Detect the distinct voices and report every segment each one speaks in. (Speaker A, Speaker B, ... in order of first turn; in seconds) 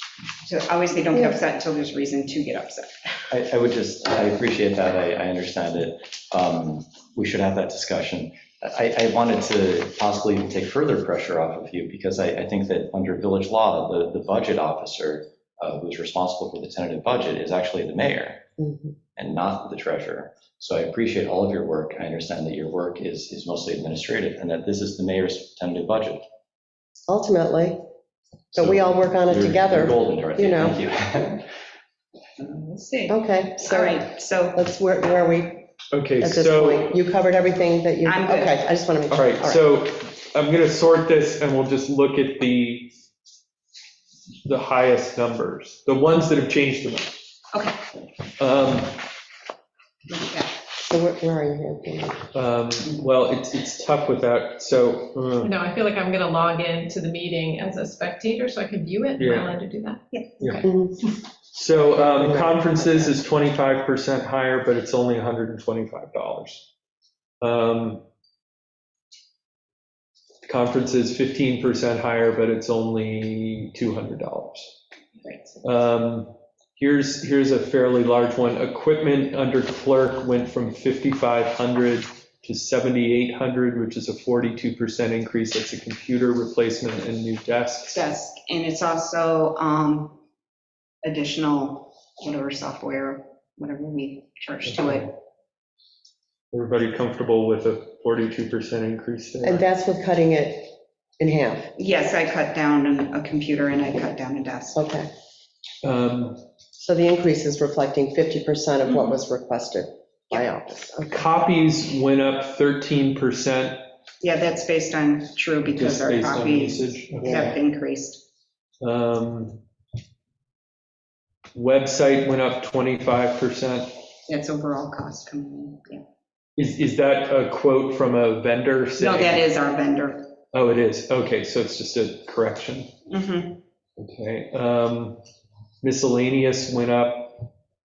Speaker A: 0.4-2.9, 32.4-34.6, 38.0-38.6, 47.5-47.9, 50.1-50.5, 75.2-75.6, 87.9-90.2, 91.0-95.1, 101.8-104.8, 108.8-109.1, 114.2-118.2, 124.2-126.0, 129.0-130.3, 133.1-133.6
Speaker B: 1.1-1.4, 18.6-18.9, 27.1-27.8, 28.5-30.8, 33.1-39.6, 50.9-52.2, 60.6-61.0, 62.1-63.1, 99.4-101.7, 104.7-105.1, 106.8-111.1, 117.2-117.5
Speaker C: 3.3-18.4, 19.1-26.2, 28.5-31.5
Speaker D: 35.9-36.9, 39.1-42.9, 44.4-47.1, 48.4-49.0, 52.3-55.5, 59.2-59.6, 61.5-66.7, 67.4-68.0, 70.4-74.7, 75.6-88.0, 96.5-99.6, 105.8-106.4, 111.0-113.8, 115.7-117.5, 118.8-119.6, 121.5-123.9, 126.6-129.4, 130.5-132.9, 134.0-135.2, 135.8-137.5
Speaker E: 55.4-60.7